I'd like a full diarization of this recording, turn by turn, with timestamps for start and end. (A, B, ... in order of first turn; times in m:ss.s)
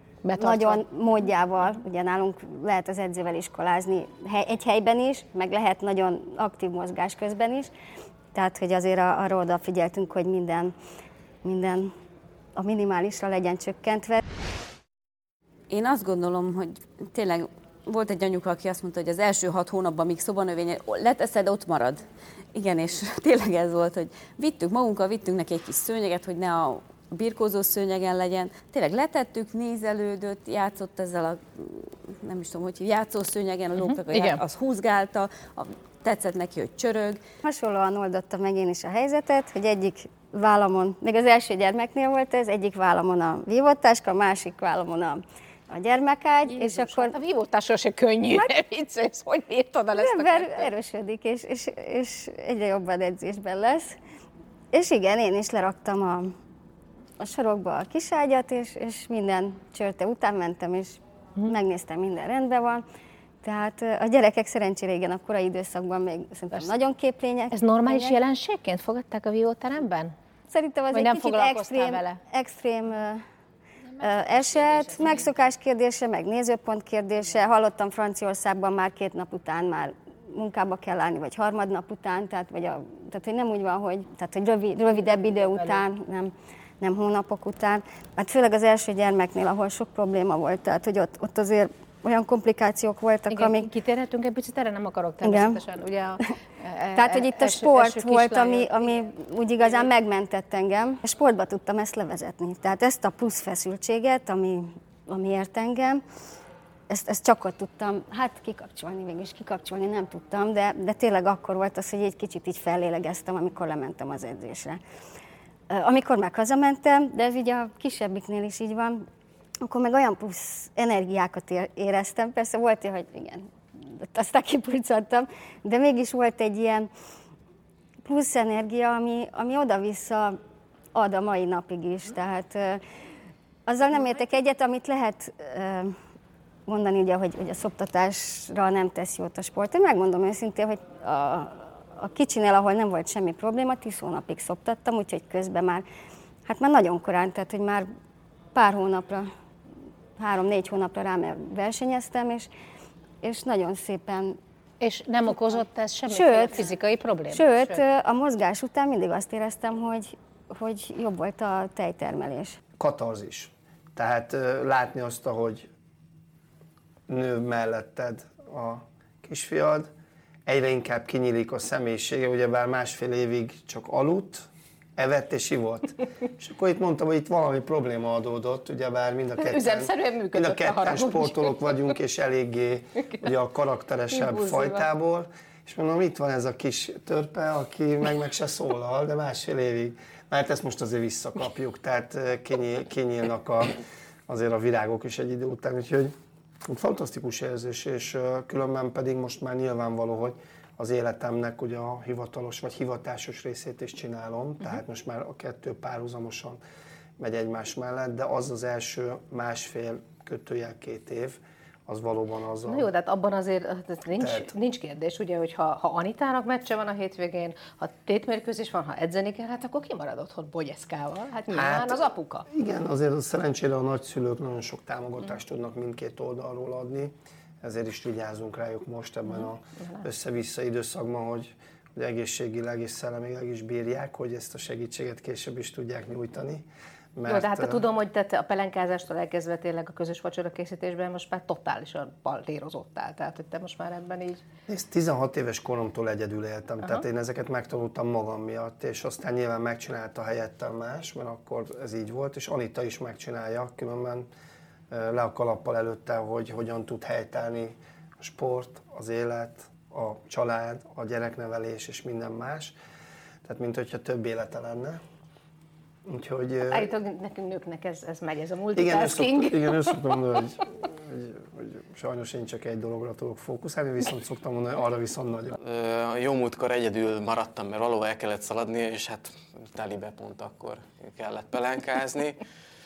0:00.2-0:00.8 A
0:00.4-0:07.7 B
0:08.3-0:10.7 B
0:11.4-0:11.9 B
0:12.6-0:14.2 B
0:15.7-0:37.2 C
0:33.8-0:34.4 A
0:37.4-0:47.1 B
0:46.5-0:50.7 A
0:49.9-0:54.0 B
0:54.7-0:56.3 B
0:57.2-1:02.8 B
1:03.4-1:08.1 B
1:07.5-1:10.1 A
1:10.5-1:13.2 B
1:10.9-1:12.2 A
1:14.0-1:33.7 B
1:25.2-1:25.8 A
1:33.3-1:39.1 A
1:35.2-1:35.6 B
1:36.9-1:46.0 B
1:46.9-1:54.8 B
1:55.7-1:59.0 B
1:59.6-2:06.9 B
2:08.0-2:10.4 B
2:10.9-2:12.8 B
2:13.7-2:16.0 B
2:16.7-2:25.8 B
2:26.5-2:27.9 B
2:28.5-2:29.3 B
2:30.2-2:32.5 B
2:33.2-2:34.4 B
2:34.8-2:37.8 A
2:36.1-2:36.7 B
2:37.3-2:42.6 B
2:42.8-2:45.7 D
2:47.1-2:49.9 D
2:50.4-3:16.1 D
2:59.4-3:01.7 A
3:04.1-3:04.8 A
3:16.7-3:26.6 D
3:27.2-3:32.9 D
3:32.7-3:42.4 A
3:34.2-3:34.5 D
3:41.5-3:57.8 D
3:49.3-3:50.0 A
3:57.2-4:04.4 A
4:04.7-4:14.3 D
4:14.9-4:22.7 D
4:23.4-4:25.0 D
4:26.1-4:26.9 D
4:26.7-4:30.0 A
4:28.7-4:35.6 D
4:35.6-4:42.4 E